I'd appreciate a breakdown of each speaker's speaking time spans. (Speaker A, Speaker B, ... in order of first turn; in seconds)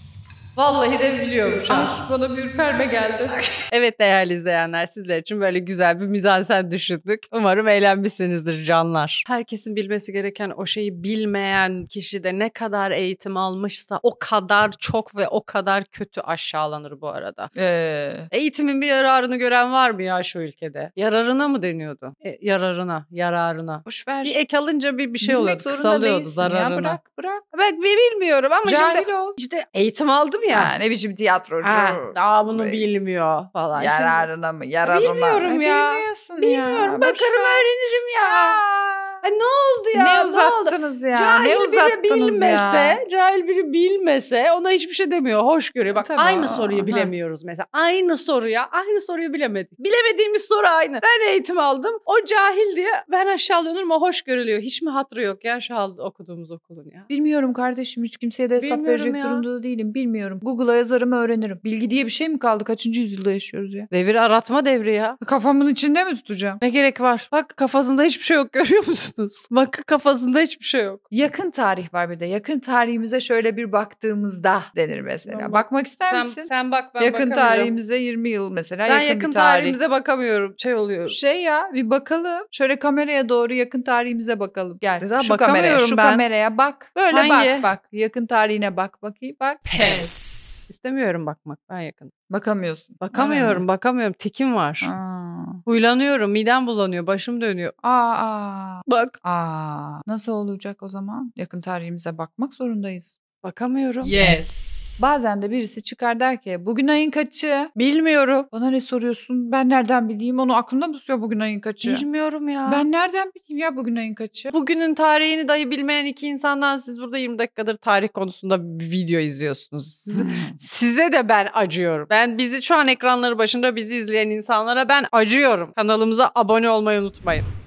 Speaker A: 0.6-2.0, 3.7-17.5, 18.3-27.0, 27.5-30.7, 31.6-34.3, 34.8-38.6, 39.2-57.1, 58.6-59.5, 63.9-65.2, 66.6-71.0, 75.2-77.7, 78.9-81.2, 85.0-86.2, 87.1-87.7, 90.7-92.1, 93.0-94.9, 95.6-97.7, 98.9-99.2, 103.4-104.1, 107.7-108.5, 111.8-112.8, 114.5-127.5
Speaker B: 1.7-3.5, 17.6-18.3, 23.9-24.4, 25.2-27.4, 28.6-29.4, 30.5-32.8, 33.7-37.6, 38.2-39.2, 39.9-43.0, 46.0-47.1, 57.1-63.9, 65.2-66.6, 71.1-79.8, 81.1-89.8, 92.3-93.6, 94.8-95.6, 97.8-103.1, 105.0-107.7, 108.5-112.0, 112.7-114.5, 120.1-120.5
Speaker C: 89.7-90.6, 104.0-105.1